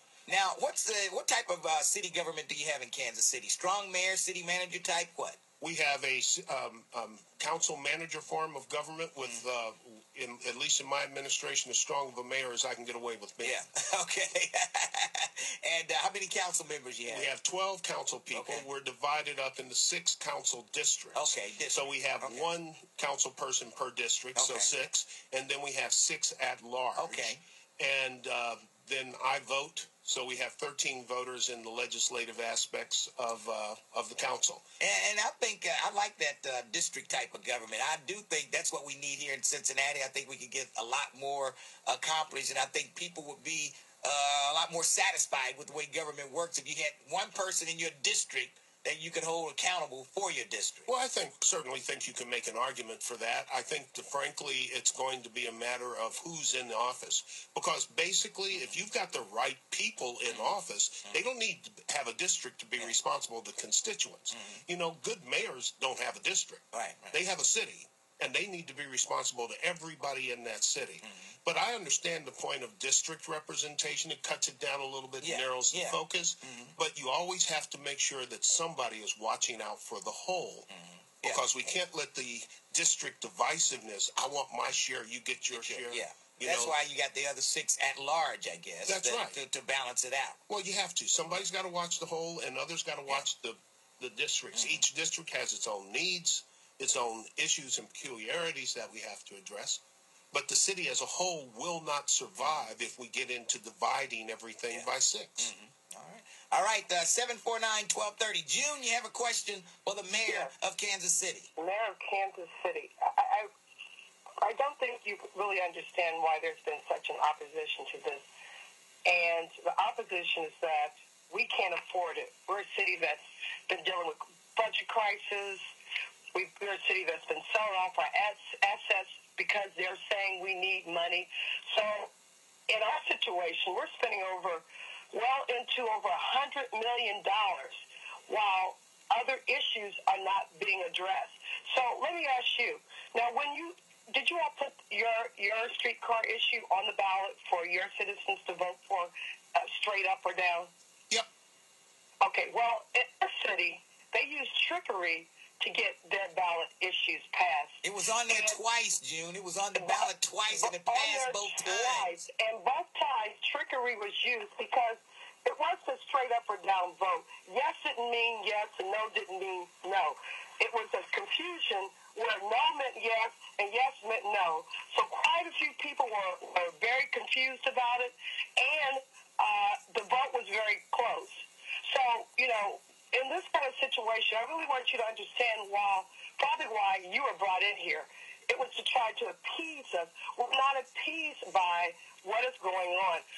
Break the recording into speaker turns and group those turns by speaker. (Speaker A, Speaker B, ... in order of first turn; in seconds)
Speaker A: 0.3-5.4, 13.4-17.3, 18.3-18.6, 21.1-22.4, 24.3-24.7, 27.0-27.4, 34.8-50.9, 60.3-60.6, 64.3-64.6, 66.7-67.2, 71.0-71.3, 75.2-76.7, 80.7-81.4, 85.5-90.4, 94.5-94.8, 104.7-111.5, 157.8-162.2
Speaker B: 5.6-13.6, 17.1-34.6, 50.9-80.7, 81.2-86.8, 88.8-89.4, 90.5-105.5
Speaker C: 110.1-110.5, 111.5-113.5, 114.4-118.2, 119.0-125.6, 126.3-132.1, 132.7-150.7, 152.2-158.6, 159.7-193.2